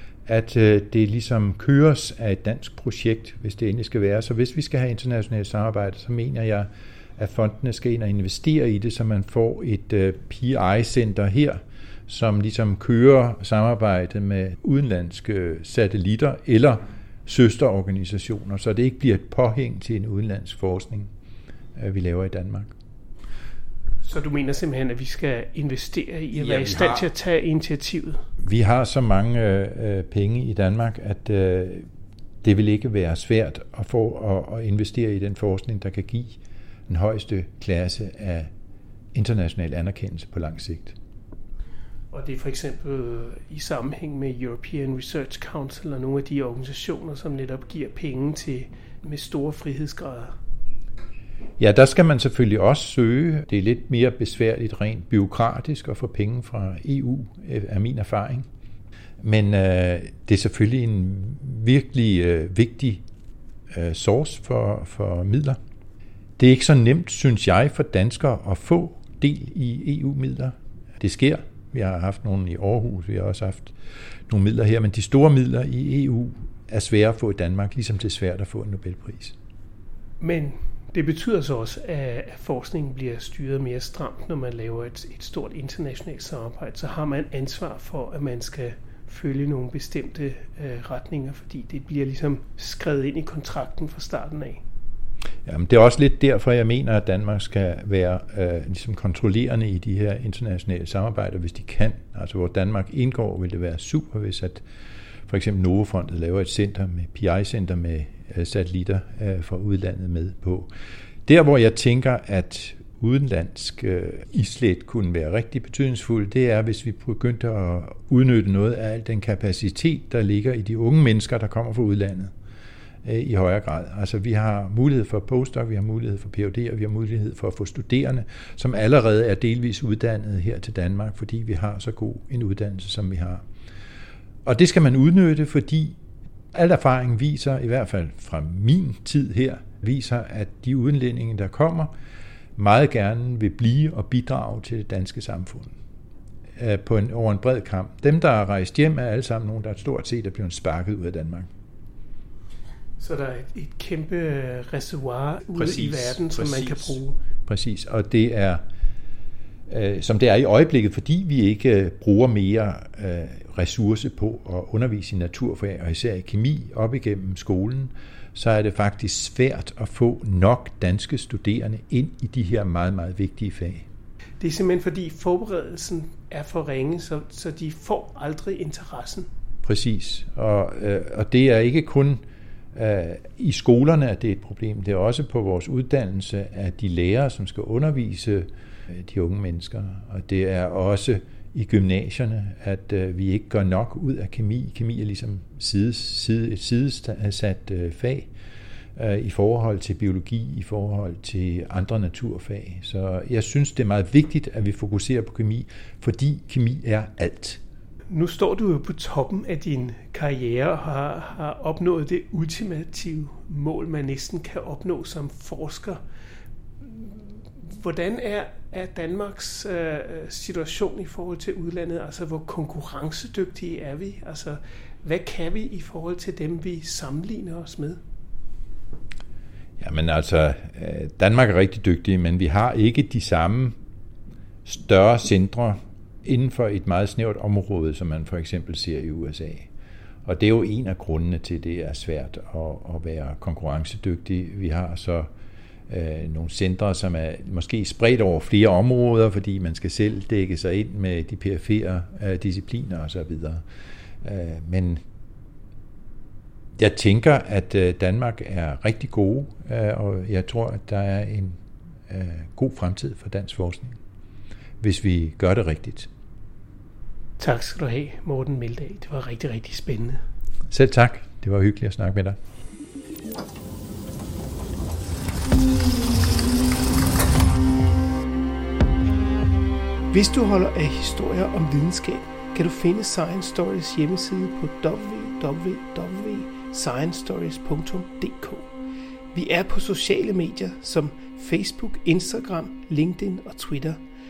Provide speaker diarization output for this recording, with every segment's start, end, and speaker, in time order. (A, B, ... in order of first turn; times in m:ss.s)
0:00.3-0:21.1 A
0:21.8-0:22.7 A
0:24.0-0:28.2 B
0:26.3-0:27.1 A
0:28.4-0:31.9 A
0:32.4-0:38.5 A
0:39.1-0:41.0 A
0:42.1-0:50.4 B
0:51.6-0:58.5 A
0:59.2-1:03.0 A
1:03.7-1:05.6 A
1:06.4-1:13.8 A
1:14.3-1:19.4 A
1:20.2-1:34.6 B
1:35.5-1:44.6 A
1:45.3-1:50.7 A
1:51.3-2:02.3 A
2:03.0-2:13.4 A
2:14.5-2:16.0 A
2:16.5-2:21.9 A
2:22.6-2:25.7 A
2:26.6-2:31.5 A
2:33.0-2:37.2 B
2:35.6-2:38.6 A
2:39.7-2:53.9 A
2:54.4-2:59.3 B
2:59.6-3:02.2 A
3:02.7-3:18.3 A
3:19.0-3:27.6 A
3:28.1-3:36.0 B
3:36.8-3:48.0 B
3:49.8-3:53.8 A
3:54.6-3:59.7 A
4:00.2-4:05.3 A
4:05.9-4:13.6 A
4:14.2-4:15.0 A
4:16.8-4:24.0 A
4:24.8-4:26.1 A
4:27.4-4:30.2 B
4:30.7-4:32.4 A
4:40.1-4:48.7 B
4:49.3-4:54.0 B